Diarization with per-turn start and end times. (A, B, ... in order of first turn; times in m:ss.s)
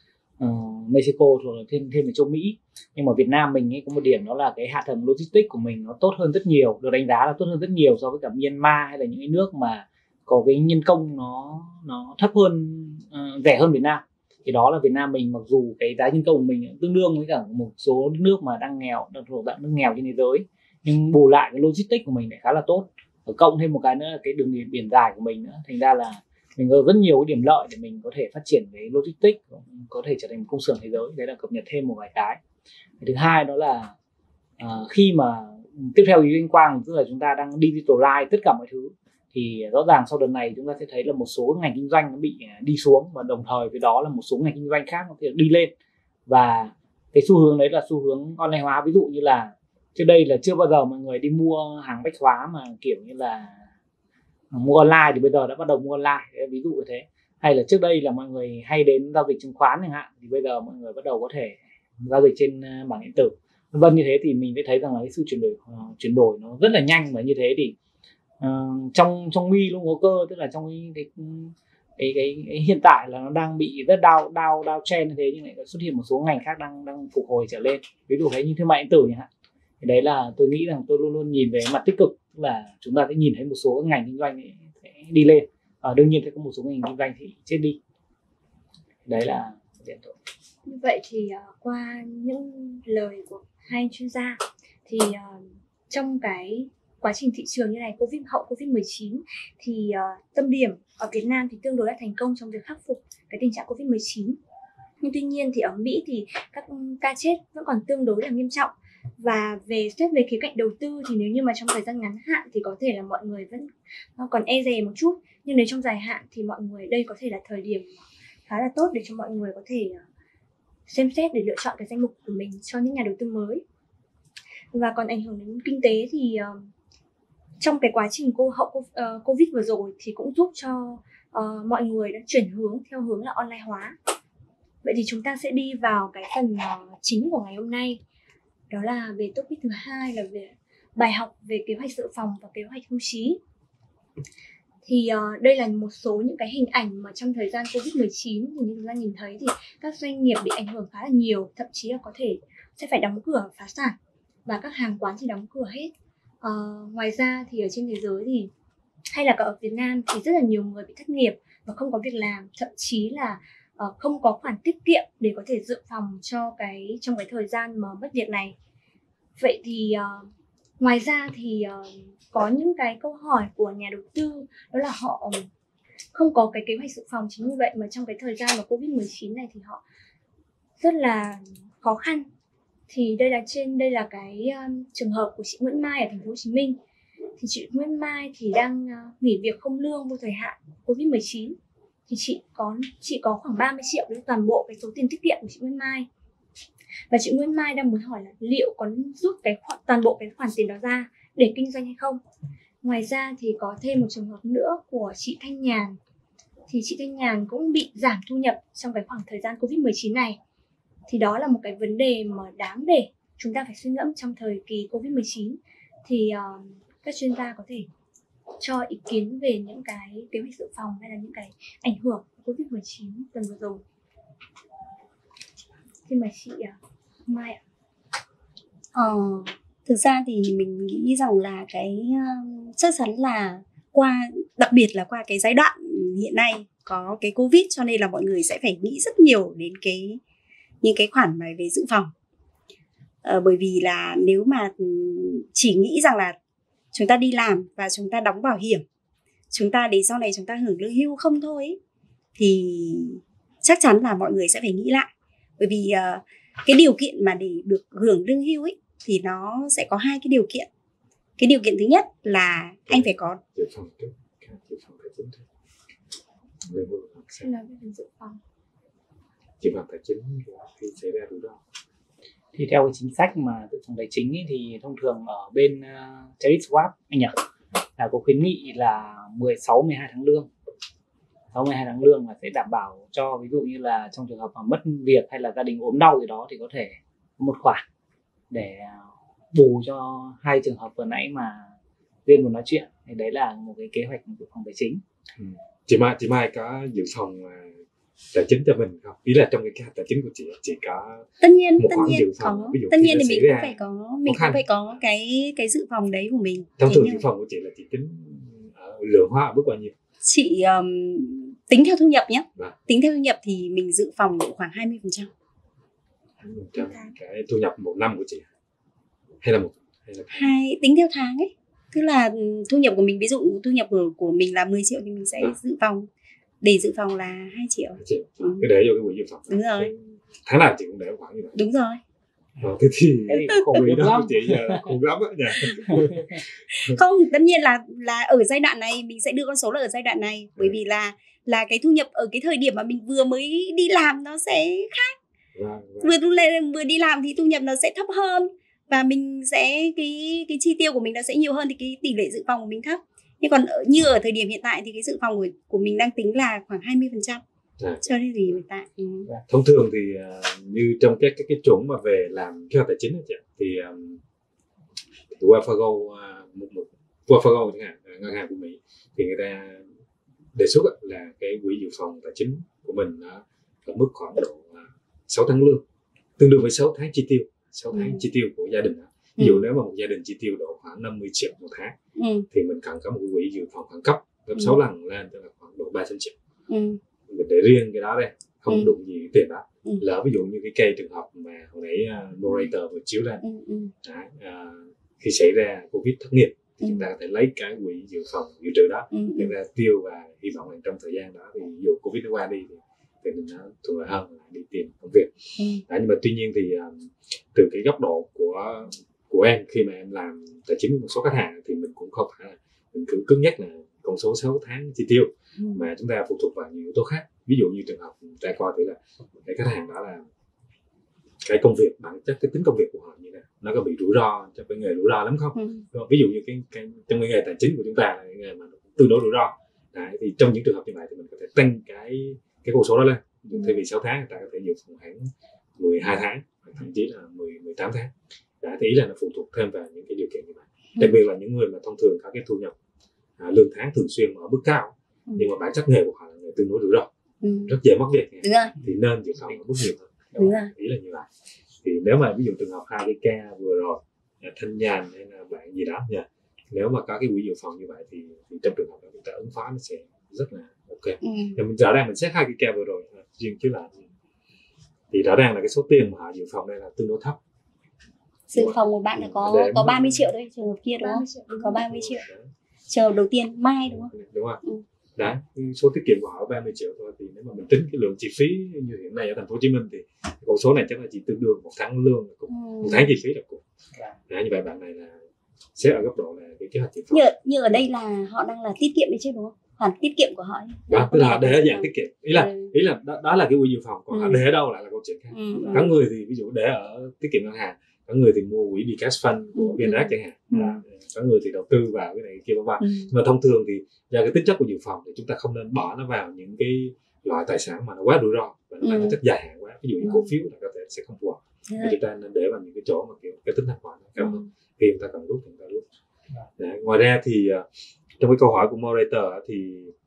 0:00.4-0:32.4 A
0:33.0-0:33.9 A
0:34.6-0:45.7 A
0:46.3-0:53.6 A
0:54.5-1:07.8 A
1:08.4-1:19.3 A
1:19.8-1:27.8 A
1:29.1-1:30.2 A
1:30.7-1:44.4 B
1:45.0-2:00.0 B
2:00.9-2:03.6 B
2:04.7-2:06.7 B
2:07.6-2:14.0 B
2:14.8-2:18.0 B
2:18.7-2:23.4 B
2:24.8-2:38.5 B
2:39.1-2:48.6 B
2:49.4-2:50.3 B
2:50.8-2:55.5 B
2:56.1-2:59.8 B
3:00.8-3:02.3 B
3:02.9-3:06.8 B
3:07.4-3:11.6 B
3:12.1-3:16.1 B
3:17.1-3:22.2 B
3:22.8-3:26.0 B
3:26.7-3:30.4 B
3:31.1-3:37.9 B
3:38.6-3:43.8 B
3:46.1-3:47.6 B
3:49.0-4:00.2 C
4:00.8-4:02.1 C
4:03.2-4:06.4 C
4:06.9-4:08.8 C
4:09.5-4:11.8 C
4:12.4-4:20.7 C
4:21.4-4:23.4 C
4:22.9-4:25.4 D
4:26.7-4:27.5 D
4:27.4-4:28.4 B
4:29.6-4:31.6 D
4:32.6-4:37.4 A
4:38.0-4:40.5 A
4:41.5-4:47.8 A
4:48.5-4:51.7 A
4:52.3-4:55.0 A
4:55.4-4:57.7 D
4:58.3-5:05.0 D
5:01.4-5:07.2 C
5:06.8-5:09.9 D
5:10.2-5:15.3 C
5:16.4-5:18.4 D
5:16.8-5:17.1 B
5:19.4-5:20.6 D
5:20.3-5:26.1 C
5:26.6-5:28.7 C
5:28.0-5:31.6 D
5:29.5-5:29.9 C
5:31.6-5:32.0 C
5:32.6-5:36.3 D
5:33.3-5:34.9 A
5:35.9-5:36.2 A
5:36.7-5:45.2 C
5:45.6-5:46.2 D
5:46.0-5:57.4 C
5:57.8-5:58.6 D
5:58.0-5:59.3 C
5:59.5-6:04.2 D
6:05.3-6:09.9 D
6:10.6-6:15.8 D
6:16.4-6:22.0 D
6:17.9-6:18.2 C
6:19.4-6:19.6 C
6:22.2-6:22.5 C
6:22.5-6:26.4 D
6:26.7-6:27.0 C
6:27.3-6:33.4 D
6:28.7-6:28.9 C
6:33.4-6:33.9 C
6:34.0-6:45.3 D
6:36.8-6:37.1 C
6:39.1-6:39.5 C
6:45.6-6:45.8 C
6:45.9-7:00.3 D
6:55.6-6:55.9 C
7:01.4-7:22.7 D
7:05.6-7:05.9 C
7:13.5-7:13.8 C
7:23.4-7:27.1 D
7:27.4-7:27.7 C
7:27.7-7:31.3 D
7:28.4-7:28.8 C
7:30.4-7:30.7 C
7:31.8-7:44.0 D
7:41.2-7:41.6 C
7:45.1-7:47.4 D
7:48.5-7:52.2 C
7:48.5-7:50.3 D
7:51.0-7:51.8 B
7:51.7-7:52.5 D
7:52.9-7:54.1 C
7:53.8-7:54.6 D
7:55.2-8:03.6 D
8:02.5-8:03.2 C
8:04.3-8:05.2 D
8:05.8-8:07.3 D
8:07.1-8:12.7 C
8:10.9-8:35.8 D
8:14.1-8:14.4 C
8:15.3-8:15.9 C
8:19.6-8:20.8 C
8:22.8-8:23.1 C
8:28.8-8:29.2 C
8:30.0-8:30.3 C
8:31.7-8:32.0 C
8:34.2-8:34.4 C
8:36.6-8:37.6 D
8:38.2-8:39.9 D